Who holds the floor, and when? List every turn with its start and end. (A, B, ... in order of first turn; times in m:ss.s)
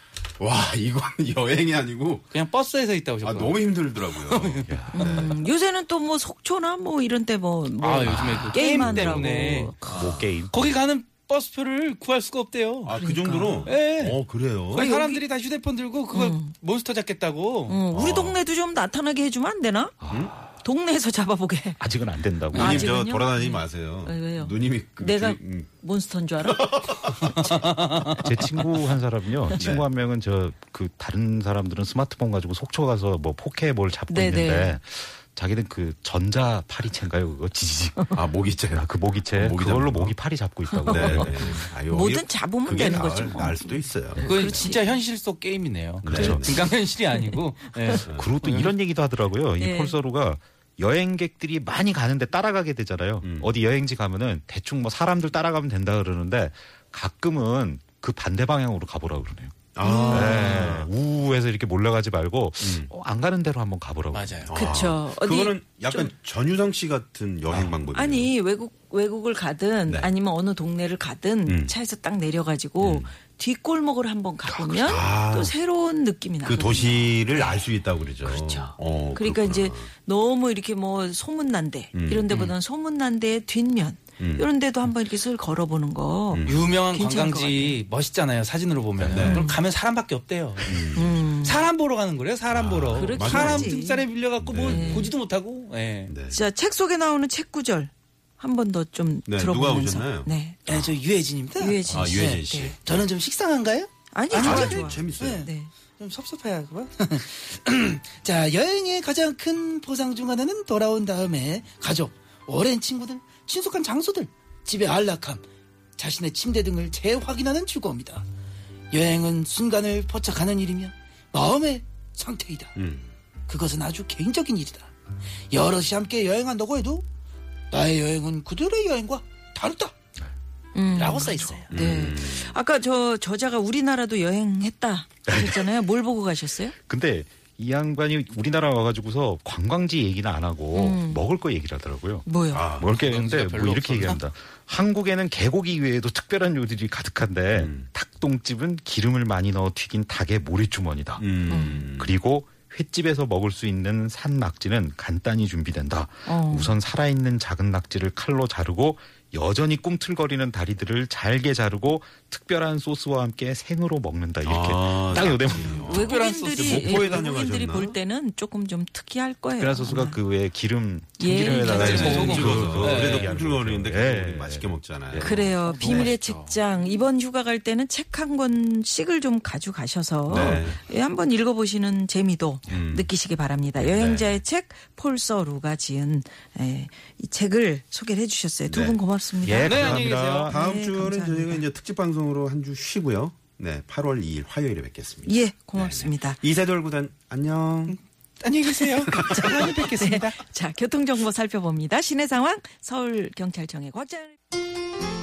0:00.4-0:02.3 A
0:02.3-0:04.8 B
0:03.2-0:05.4 A
0:04.7-0:05.3 C
0:04.9-0:10.1 D
0:07.8-0:13.1 B
0:08.0-0:10.7 C
0:09.9-0:10.3 A
0:12.8-0:14.9 A
0:12.9-0:13.7 D
0:13.6-0:17.8 B
0:14.7-0:15.2 D
0:16.1-0:16.5 D
0:17.7-0:20.0 D
0:17.9-0:18.4 A
0:20.0-0:20.5 C
0:20.5-0:21.8 D
0:21.8-0:22.9 C
0:22.5-0:27.4 D
0:22.5-0:22.8 B
0:22.5-0:25.7 A
0:26.4-0:27.5 A
0:27.5-0:28.1 B
0:28.0-0:41.6 C
0:29.6-0:29.8 A
0:34.1-0:34.8 D
0:38.1-0:40.2 A
0:40.7-0:44.9 D
0:40.9-0:44.6 A
0:44.2-0:48.7 B
0:46.0-0:46.5 A
0:46.1-0:48.0 D
0:48.0-0:48.3 A
0:48.0-1:04.5 C
0:49.6-0:50.0 D
0:53.2-0:53.5 A
0:59.7-1:00.9 A
0:59.8-1:00.7 D
1:02.6-1:02.9 A
1:04.1-1:04.5 B
1:04.5-1:08.3 A
1:04.5-1:06.1 D
1:07.9-1:17.7 D
1:11.5-1:11.7 A
1:12.8-1:13.1 A
1:14.4-1:15.5 A
1:16.4-1:19.9 A
1:18.2-1:27.8 D
1:21.9-1:22.3 A
1:22.3-1:22.5 B
1:24.2-1:24.4 A
1:26.3-1:26.7 A
1:26.4-1:36.1 B
1:29.0-1:29.5 A
1:29.1-1:29.6 D
1:30.6-1:31.2 A
1:30.9-1:31.6 D
1:32.5-1:33.7 A
1:32.9-1:34.1 D
1:34.4-1:35.1 A
1:34.6-1:35.1 D
1:36.0-1:36.4 A
1:36.3-1:40.6 D
1:39.3-1:41.0 A
1:40.7-1:41.5 B
1:41.0-1:42.1 E
1:41.6-1:42.8 D
1:41.9-1:43.1 A
1:42.8-1:45.4 E
1:44.1-1:45.7 D
1:44.4-1:45.5 A
1:44.4-1:44.7 B
1:46.0-1:55.4 E
1:56.0-1:58.2 E
1:58.9-2:02.7 E
2:02.8-2:03.1 A
2:03.5-2:04.9 E
2:05.5-2:07.0 E
2:07.7-2:09.9 E
2:10.7-2:16.7 D
2:10.9-2:11.7 E
2:11.0-2:11.7 C
2:11.7-2:12.6 A
2:15.3-2:15.7 C
2:16.8-2:46.3 C
2:20.7-2:21.2 D
2:22.2-2:22.7 D
2:22.5-2:22.9 A
2:22.9-2:24.2 B
2:27.5-2:27.8 A
2:31.2-2:32.1 A
2:31.5-2:31.8 D
2:36.2-2:36.8 D
2:44.4-2:48.0 A
2:45.7-2:47.1 B
2:45.8-2:50.2 D
2:49.6-2:56.1 C
2:51.2-2:52.6 D
2:51.6-2:53.3 B
2:51.7-2:55.4 A
2:55.2-3:11.6 D
2:55.6-2:56.6 B
3:00.3-3:00.7 C
3:00.3-3:00.8 A
3:02.7-3:03.1 A
3:03.8-3:04.4 A
3:08.7-3:09.0 A
3:09.4-3:10.6 C
3:09.6-3:10.5 B
3:10.4-3:18.0 A
3:15.2-3:16.4 D
3:17.9-3:20.4 E
3:19.0-3:19.7 A
3:19.1-3:24.3 D